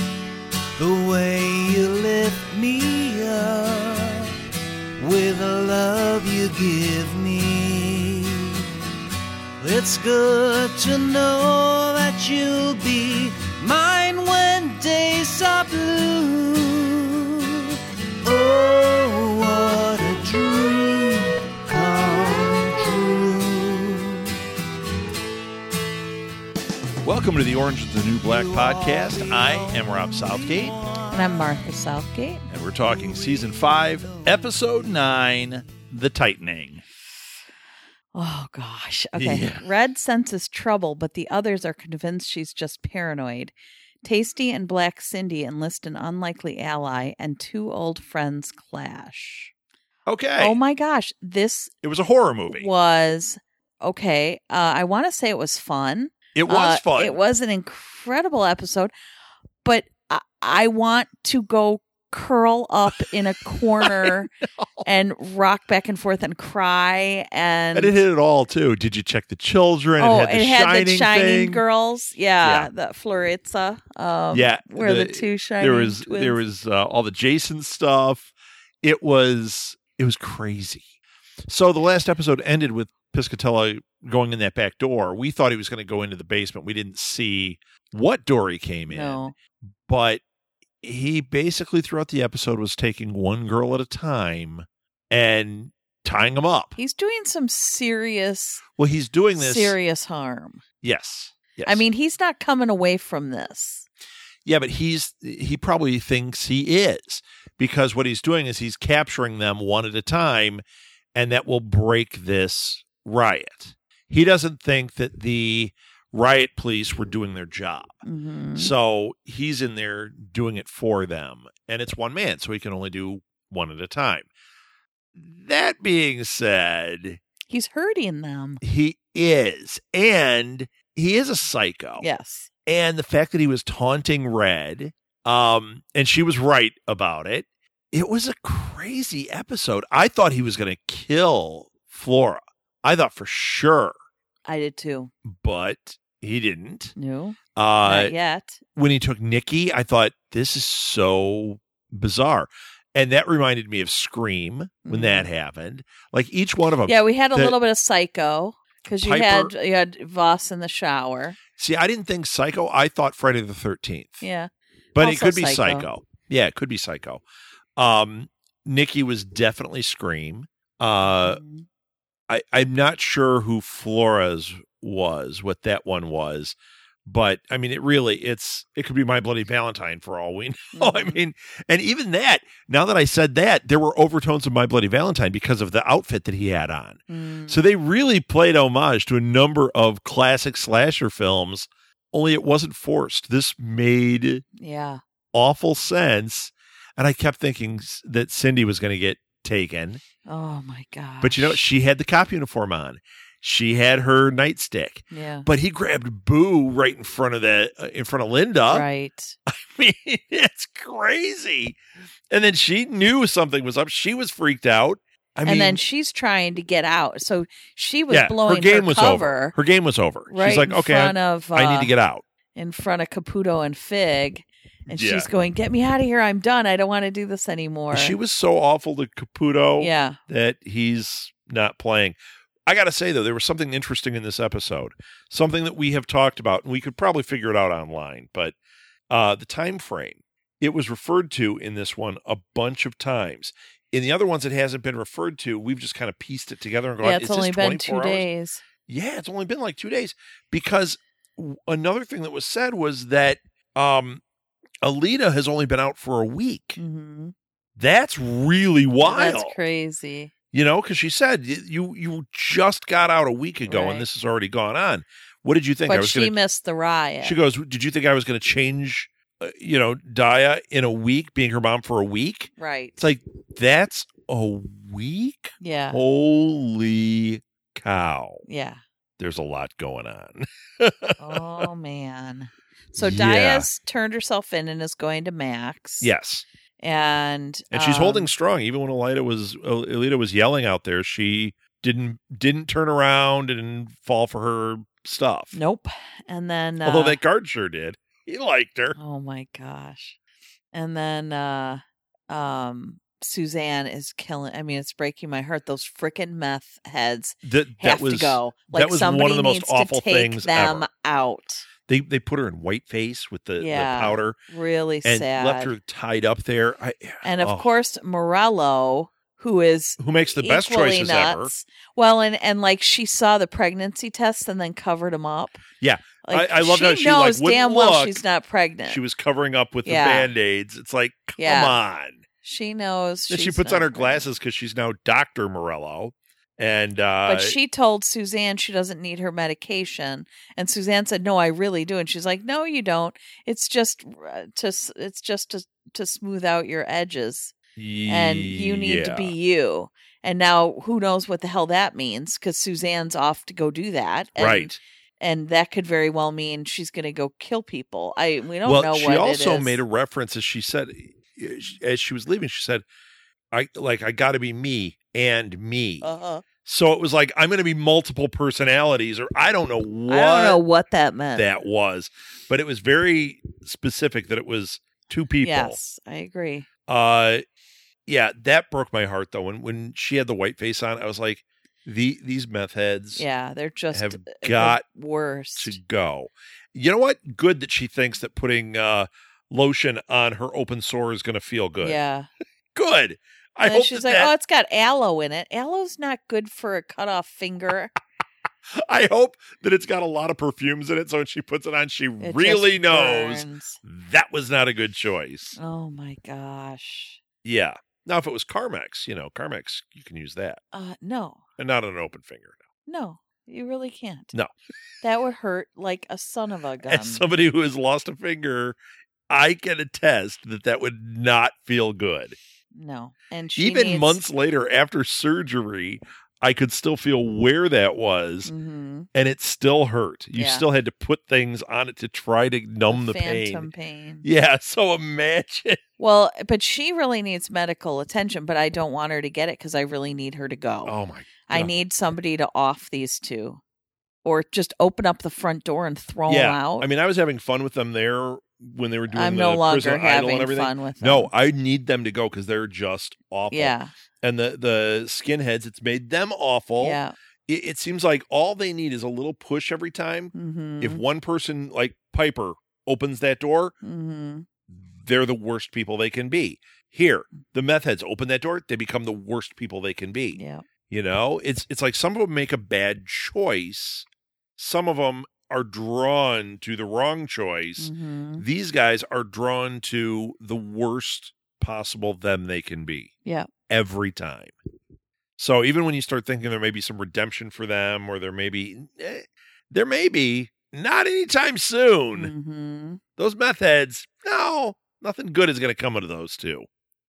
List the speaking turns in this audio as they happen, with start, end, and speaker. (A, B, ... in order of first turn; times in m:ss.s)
0:00.8-0:04.3 A
0:05.0-0:08.6 A
0:09.6-0:17.7 A
0:18.2-0:24.3 A
0:27.0-0:30.8 B
0:28.3-0:31.2 A
0:31.1-0:32.4 C
0:32.5-0:36.8 B
0:32.8-0:34.4 A
0:38.1-0:49.5 C
0:39.1-0:39.6 B
0:50.1-0:50.6 B
0:50.4-0:51.7 C
0:51.8-0:52.7 B
0:52.5-0:58.9 C
0:56.3-0:57.2 B
0:59.6-1:04.3 C
1:03.8-1:04.8 B
1:04.8-1:08.0 C
1:07.7-1:11.6 B
1:10.0-1:16.4 C
1:12.4-1:12.7 B
1:14.3-1:18.3 B
1:18.8-1:20.9 B
1:21.5-1:29.3 B
1:28.9-1:29.3 C
1:29.8-1:30.2 B
1:30.8-1:36.8 B
1:36.8-1:38.6 C
1:38.8-1:39.8 B
1:39.3-1:40.6 C
1:40.8-1:41.9 B
1:41.6-1:43.9 C
1:44.4-1:50.6 B
1:51.1-1:57.9 B
1:58.0-1:58.7 C
1:58.6-2:04.3 B
2:05.2-2:07.2 B
2:07.5-2:08.6 C
2:08.6-2:12.0 B
2:12.0-2:12.5 C
2:12.7-2:23.9 B
2:24.4-2:25.1 C
2:25.2-2:26.9 B
2:27.0-2:28.6 C
2:27.6-2:28.1 B
2:28.8-2:37.6 B
2:34.8-2:35.3 C
2:36.8-2:41.4 C
2:38.8-2:39.5 B
2:41.6-2:44.2 B
2:44.2-2:45.9 C
2:44.9-2:47.2 B
2:47.8-2:51.4 B
2:51.0-2:51.6 C
2:52.3-3:14.4 B
3:00.7-3:01.2 C
3:07.1-3:07.6 C
3:14.5-3:15.0 C
3:15.3-3:20.0 B
3:20.2-3:21.6 C
3:21.2-3:28.8 B
3:25.1-3:25.5 C
3:28.7-3:29.4 C
3:29.5-3:31.8 B
3:32.3-3:35.8 B
3:35.4-3:39.6 C
3:38.1-3:42.2 B
3:40.3-3:41.9 C
3:42.5-3:48.2 C
3:44.9-3:45.3 B
3:47.9-3:58.6 B
3:49.8-3:50.2 C
3:59.1-4:08.3 B
4:07.0-4:08.6 C
4:08.9-4:14.2 B
4:14.8-4:16.8 B
4:16.8-4:17.3 C
4:17.8-4:19.6 B
4:19.0-4:20.3 C
4:20.5-4:26.3 B
4:23.7-4:24.0 C
4:25.8-4:27.4 C
4:27.2-4:38.4 B
4:32.6-4:33.0 C
4:35.6-4:36.0 C
4:38.4-4:38.8 C
4:39.2-4:41.7 B
4:41.2-4:46.1 C
4:43.0-4:43.7 B
4:46.0-4:46.4 B
4:46.8-4:48.3 C
4:47.7-4:55.5 B
4:55.5-4:57.2 C
4:56.8-4:59.0 B
4:59.0-5:00.2 C
5:00.7-5:11.7 C
5:07.4-5:10.9 B
5:11.9-5:14.4 B
5:13.6-5:15.7 C
5:15.0-5:17.7 B
5:17.2-5:25.6 C
5:20.0-5:21.5 B
5:25.8-5:28.2 B
5:26.2-5:29.0 C
5:28.9-5:32.2 B
5:29.8-5:30.3 C
5:31.4-5:31.8 C
5:32.4-5:34.3 C
5:33.3-5:37.6 B
5:37.2-5:47.6 C
5:47.8-5:49.3 B
5:48.1-5:59.8 C
5:54.4-5:54.8 B
5:58.6-6:02.8 B
6:03.5-6:06.1 B
6:06.0-6:06.4 C
6:06.6-6:10.6 B
6:10.1-6:11.5 C
6:11.4-6:15.8 B
6:15.4-6:16.7 C
6:16.9-6:17.4 B
6:18.1-6:23.2 B
6:23.2-6:25.8 C
6:23.9-6:24.8 B
6:25.6-6:32.0 B
6:31.8-6:32.3 C
6:32.7-6:34.3 B
6:33.6-6:38.0 C
6:38.8-6:45.6 B
6:42.2-6:43.8 C
6:45.6-6:47.2 C
6:47.4-6:50.6 B
6:50.7-6:51.4 C
6:51.6-6:52.6 B
6:52.8-6:54.3 C
6:55.0-6:57.3 C
6:56.8-6:58.8 B
6:59.3-7:02.4 B
7:02.7-7:04.2 C
7:03.6-7:08.5 B
7:08.4-7:09.1 C
7:09.1-7:13.7 B
7:10.4-7:10.7 C
7:12.9-7:14.2 C
7:14.2-7:15.8 B
7:16.0-7:20.9 C
7:20.8-7:21.7 B
7:21.5-7:23.6 C
7:24.2-7:26.9 C
7:26.3-7:43.7 B
7:29.1-7:31.3 C
7:33.5-7:33.9 C
7:36.8-7:37.1 C
7:40.3-7:41.0 C
7:43.8-7:44.4 C
7:44.7-7:54.0 B
7:50.3-7:50.6 C
7:54.6-8:03.1 B
7:57.8-7:58.4 C
8:03.2-8:03.5 C
8:03.7-8:04.5 B
8:05.4-8:12.3 B
8:12.1-8:13.0 C
8:13.2-8:16.6 B